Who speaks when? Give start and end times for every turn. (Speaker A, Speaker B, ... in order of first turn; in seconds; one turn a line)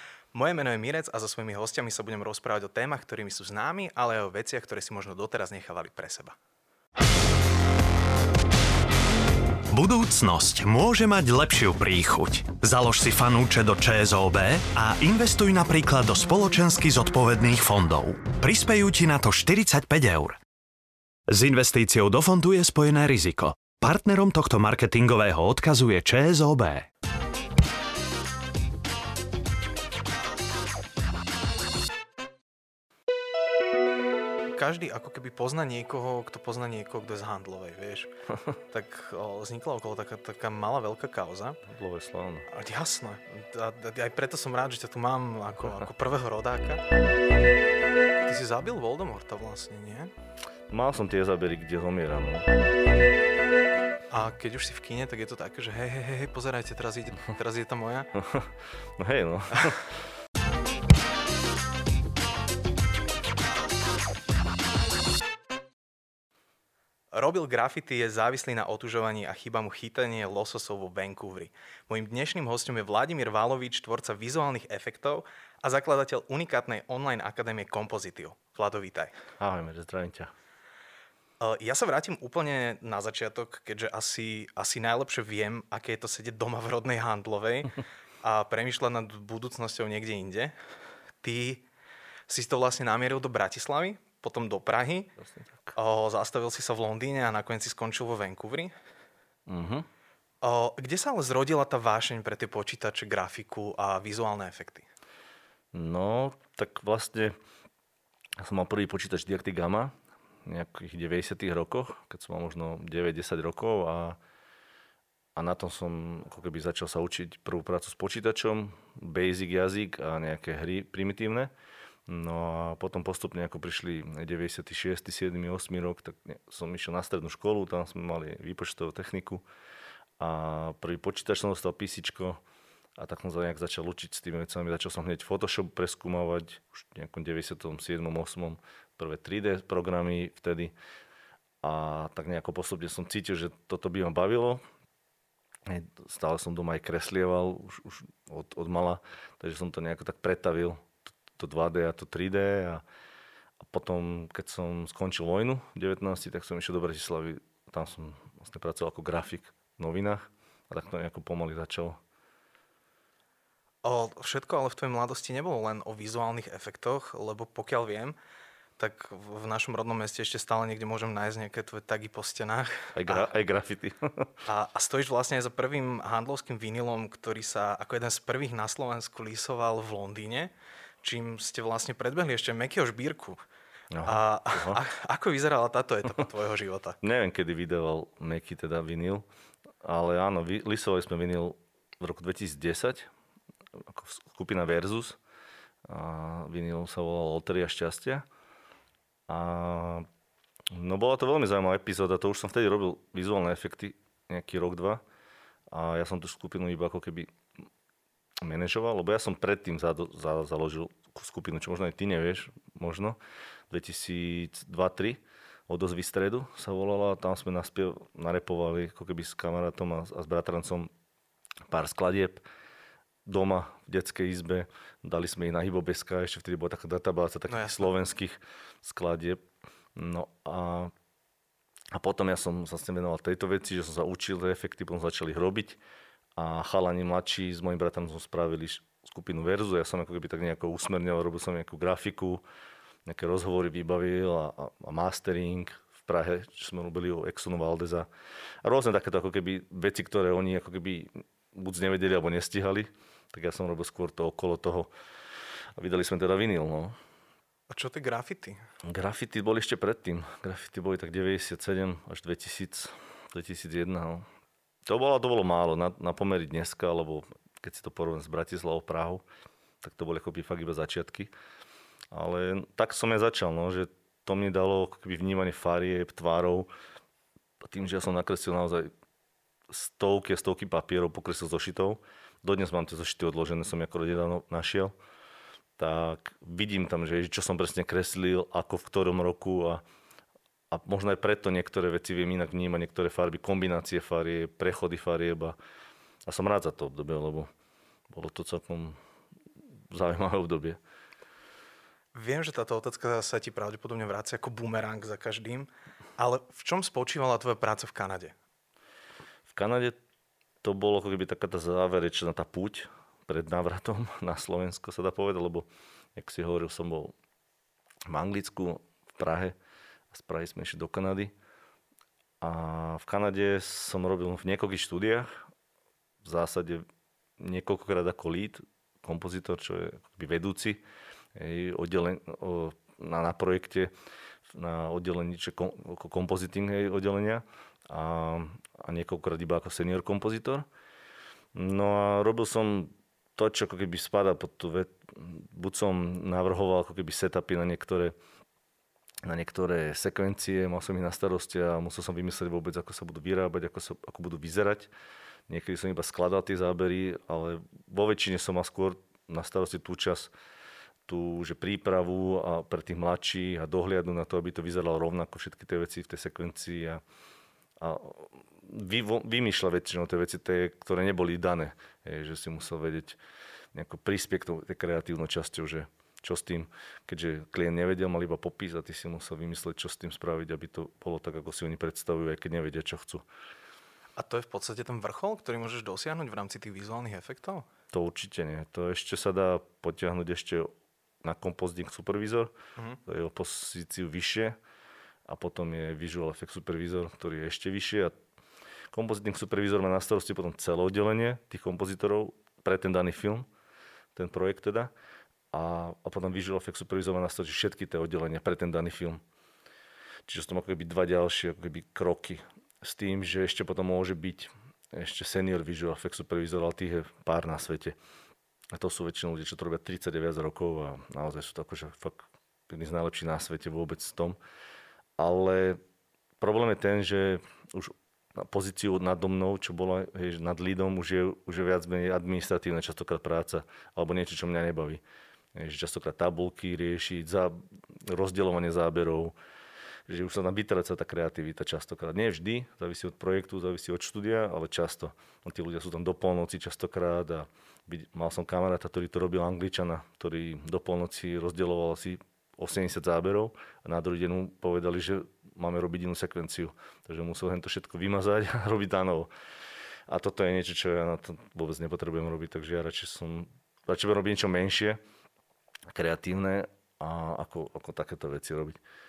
Speaker A: 0.3-6.4
Speaker B: 9.7-20.4
Speaker B: 21.3-26.9
Speaker A: 34.6-38.1
Speaker A: 38.7-41.6
Speaker C: 41.6-42.5
Speaker A: 42.5-46.8
Speaker A: 48.3-50.1
Speaker C: 50.7-52.5
Speaker A: 54.1-58.1
Speaker C: 58.1-60.0
Speaker A: 67.1-79.2
Speaker C: 79.4-80.3
Speaker A: 81.4-90.5
Speaker A: 91.2-91.7
Speaker A: 92.3-95.1
Speaker C: 95.2-95.8
Speaker A: 95.8-98.7
Speaker C: 99.5-99.9
Speaker A: 100.4-104.9
Speaker C: 105.7-107.4
Speaker C: 108.4-114.2
Speaker C: 115.4-121.5
Speaker C: 122.1-129.4
Speaker C: 130.2-132.4
Speaker C: 133.0-140.7
Speaker C: 141.6-144.6
Speaker C: 145.7-152.8
Speaker C: 153.6-162.0
Speaker A: 163.8-168.2
Speaker A: 168.8-173.3
Speaker C: 172.9-174.3
Speaker A: 174.5-180.5
Speaker A: 181.0-183.4
Speaker C: 183.9-184.8
Speaker A: 184.1-187.0
Speaker C: 187.0-189.3
Speaker C: 189.8-193.1
Speaker C: 193.8-195.2
Speaker C: 195.8-198.3
Speaker C: 199.3-200.1
Speaker C: 200.7-205.0
Speaker C: 205.7-207.3
Speaker C: 208.4-213.2
Speaker C: 213.7-220.9
Speaker C: 221.7-222.4
Speaker C: 223.3-229.4
Speaker A: 227.5-227.8
Speaker C: 229.9-230.9
Speaker C: 231.9-235.8
Speaker C: 236.4-242.4
Speaker C: 243.1-248.1
Speaker C: 248.6-254.9
Speaker C: 255.8-257.0
Speaker A: 257.7-258.6
Speaker C: 258.8-264.3
Speaker C: 264.9-269.2
Speaker C: 269.8-271.3
Speaker C: 272.1-276.7
Speaker C: 277.6-278.9
Speaker C: 279.7-285.0
Speaker C: 285.8-289.8
Speaker C: 290.7-295.6
Speaker C: 296.3-297.5
Speaker C: 298.1-299.0
Speaker C: 299.9-300.8
Speaker A: 302.1-308.4
Speaker C: 309.5-310.0
Speaker C: 310.6-317.1
Speaker C: 318.1-319.6
Speaker C: 320.1-321.3
Speaker C: 322.4-325.4
Speaker C: 326.2-326.9
Speaker C: 327.4-330.8
Speaker C: 331.4-333.9
Speaker C: 334.5-340.7
Speaker C: 341.5-348.2
Speaker C: 349.2-354.9
Speaker C: 355.5-360.3
Speaker C: 361.1-367.0
Speaker C: 367.8-373.2
Speaker C: 373.7-383.3
Speaker A: 384.2-387.7
Speaker C: 387.9-390.7
Speaker C: 391.2-392.5
Speaker C: 393.1-394.6
Speaker C: 395.3-398.1
Speaker C: 398.9-403.5
Speaker C: 404.1-404.9
Speaker C: 405.5-409.2
Speaker C: 410.3-418.0
Speaker C: 418.7-424.4
Speaker C: 425.2-425.8
Speaker C: 426.4-435.0
Speaker C: 435.6-439.4
Speaker C: 440.1-459.3
Speaker C: 460.1-465.0
Speaker C: 465.9-468.8